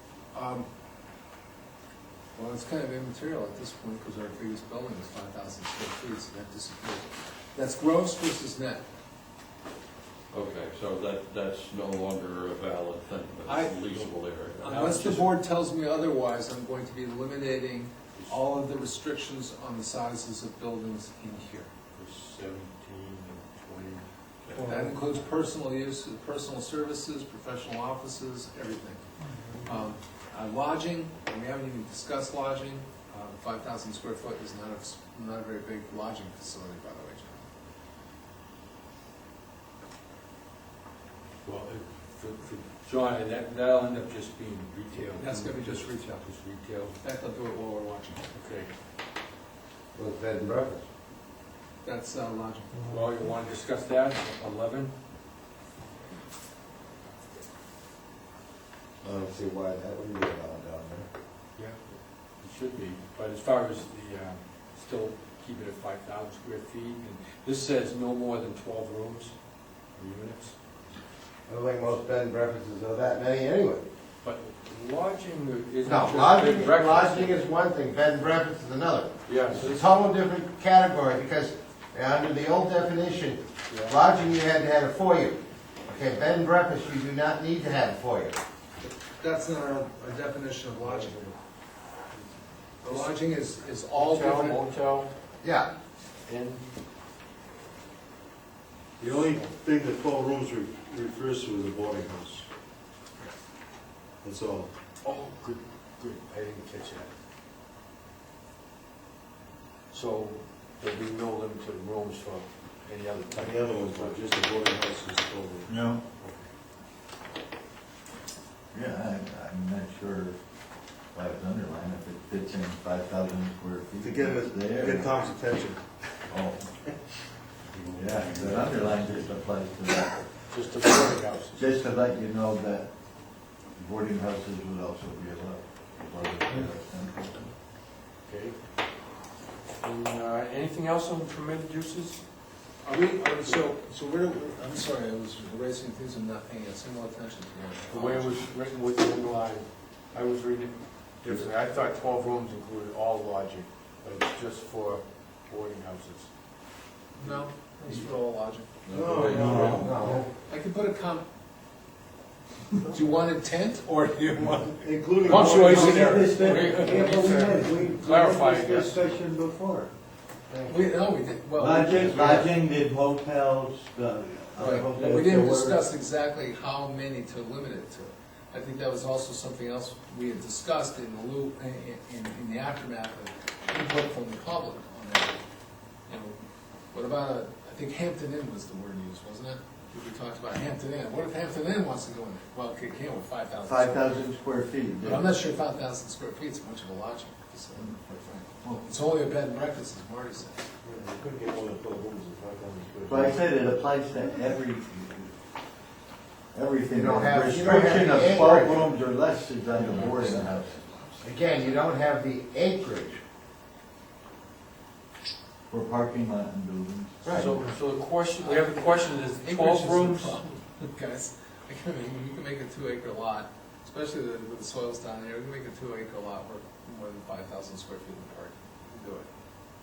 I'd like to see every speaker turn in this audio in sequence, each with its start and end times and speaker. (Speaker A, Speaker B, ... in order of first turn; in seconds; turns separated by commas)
Speaker A: 0.3-0.7, Speaker A: 2.3-8.8, Speaker B: 10.3-14.6, Speaker A: 13.4-13.8, Speaker C: 13.9-15.3, Speaker A: 14.6-21.7, Speaker C: 21.9-25.1, Speaker A: 24.6-29.0, Speaker A: 29.6-37.5, Speaker C: 41.4-47.0, Speaker A: 45.2-46.1, Speaker A: 47.0-48.3, Speaker C: 48.3-48.7, Speaker D: 49.9-50.9, Speaker A: 51.8-52.8, Speaker C: 52.8-54.9, Speaker D: 59.0-61.1, Speaker C: 62.4-70.5, Speaker D: 71.5-73.8, Speaker C: 74.2-77.4, Speaker D: 75.8-88.4, Speaker C: 79.2-79.8, Speaker C: 83.7-84.0, Speaker A: 88.8-91.3, Speaker C: 90.8-91.3, Speaker A: 92.8-94.6, Speaker C: 92.8-93.2, Speaker C: 93.9-95.1, Speaker D: 95.4-95.7, Speaker C: 96.2-96.7, Speaker E: 99.0-102.5, Speaker E: 104.2-104.7, Speaker C: 105.0-107.1, Speaker C: 109.9-114.2, Speaker E: 113.3-115.7, Speaker F: 115.7-116.0, Speaker C: 116.2-116.4, Speaker F: 118.7-120.4, Speaker F: 121.1-125.1, Speaker D: 124.0-125.8, Speaker E: 124.3-125.2, Speaker F: 126.3-126.7, Speaker B: 127.7-129.3, Speaker F: 127.9-130.2, Speaker C: 130.5-131.8, Speaker F: 131.5-133.0, Speaker F: 133.7-137.4, Speaker C: 138.2-138.6, Speaker C: 139.8-142.2, Speaker A: 142.8-148.4, Speaker C: 147.9-156.3, Speaker A: 157.2-158.7, Speaker B: 158.8-160.0, Speaker D: 158.9-160.2, Speaker E: 158.9-160.3, Speaker F: 159.4-160.0, Speaker A: 160.4-161.2, Speaker A: 162.8-167.1, Speaker D: 164.8-168.5, Speaker F: 165.3-169.9, Speaker C: 165.3-169.1, Speaker D: 170.5-170.8, Speaker A: 170.7-172.5, Speaker F: 171.6-175.8, Speaker A: 174.6-185.4, Speaker A: 186.1-186.4, Speaker A: 186.9-194.3, Speaker F: 193.6-195.4, Speaker A: 195.0-200.7, Speaker E: 200.8-203.4, Speaker F: 203.1-205.3, Speaker F: 206.5-210.8, Speaker D: 206.9-208.9, Speaker B: 209.9-210.3, Speaker E: 210.0-210.4, Speaker D: 211.2-213.2, Speaker F: 215.7-217.6, Speaker D: 217.2-217.6, Speaker C: 217.3-220.4, Speaker A: 218.4-229.3